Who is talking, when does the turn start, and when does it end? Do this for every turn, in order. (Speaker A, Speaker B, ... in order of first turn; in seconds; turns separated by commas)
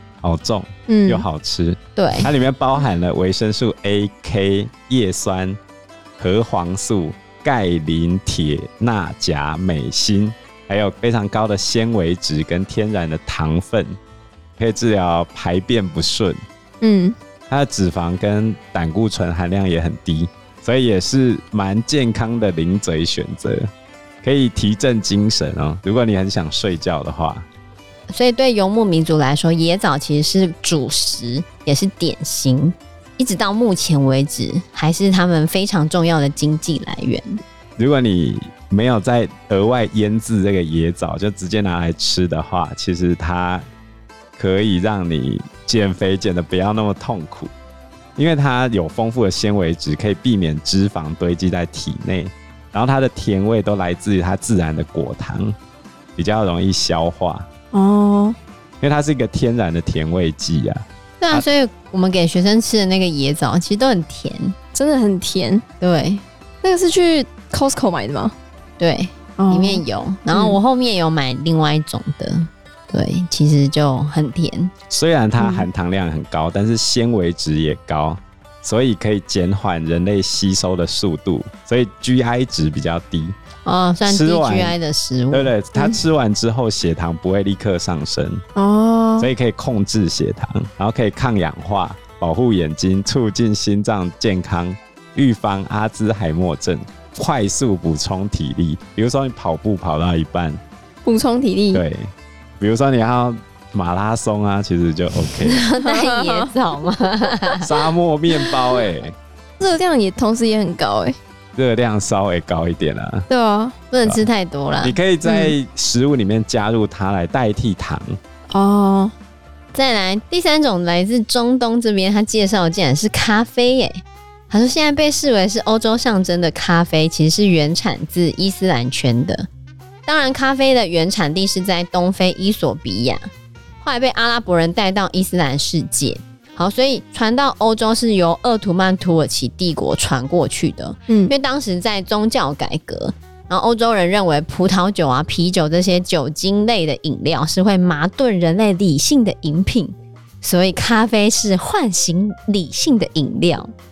Speaker A: 0.2-5.6, Speaker B: 0.9-1.2, Speaker C: 2.0-2.3, Speaker A: 6.2-14.0, Speaker A: 14.6-16.4, Speaker B: 16.8-17.1, Speaker A: 17.5-23.7, Speaker A: 24.2-27.5, Speaker C: 28.1-37.4, Speaker A: 37.8-43.6, Speaker A: 44.4-47.5, Speaker A: 48.2-55.5, Speaker A: 56.2-57.5, Speaker B: 57.7-58.4, Speaker A: 58.8-61.5, Speaker C: 61.2-64.6, Speaker B: 64.7-65.6, Speaker C: 65.8-66.2, Speaker B: 66.6-68.3, Speaker C: 68.8-74.7, Speaker B: 69.4-70.6, Speaker A: 74.9-83.3, Speaker B: 75.4-75.7, Speaker C: 83.7-85.5, Speaker A: 84.0-84.8, Speaker A: 85.3-88.4, Speaker B: 88.6-89.3, Speaker A: 89.2-100.6, Speaker B: 101.0-101.8, Speaker A: 101.7-105.6, Speaker C: 105.5-107.7, Speaker B: 105.8-106.5, Speaker A: 107.6-109.2, Speaker B: 109.6-111.2, Speaker A: 111.6-113.3, Speaker B: 113.3-113.8, Speaker C: 113.9-115.0, Speaker A: 114.8-118.2, Speaker B: 115.2-115.5, Speaker B: 118.5-119.1, Speaker C: 119.7-129.5, Speaker C: 130.1-133.3, Speaker C: 133.8-153.7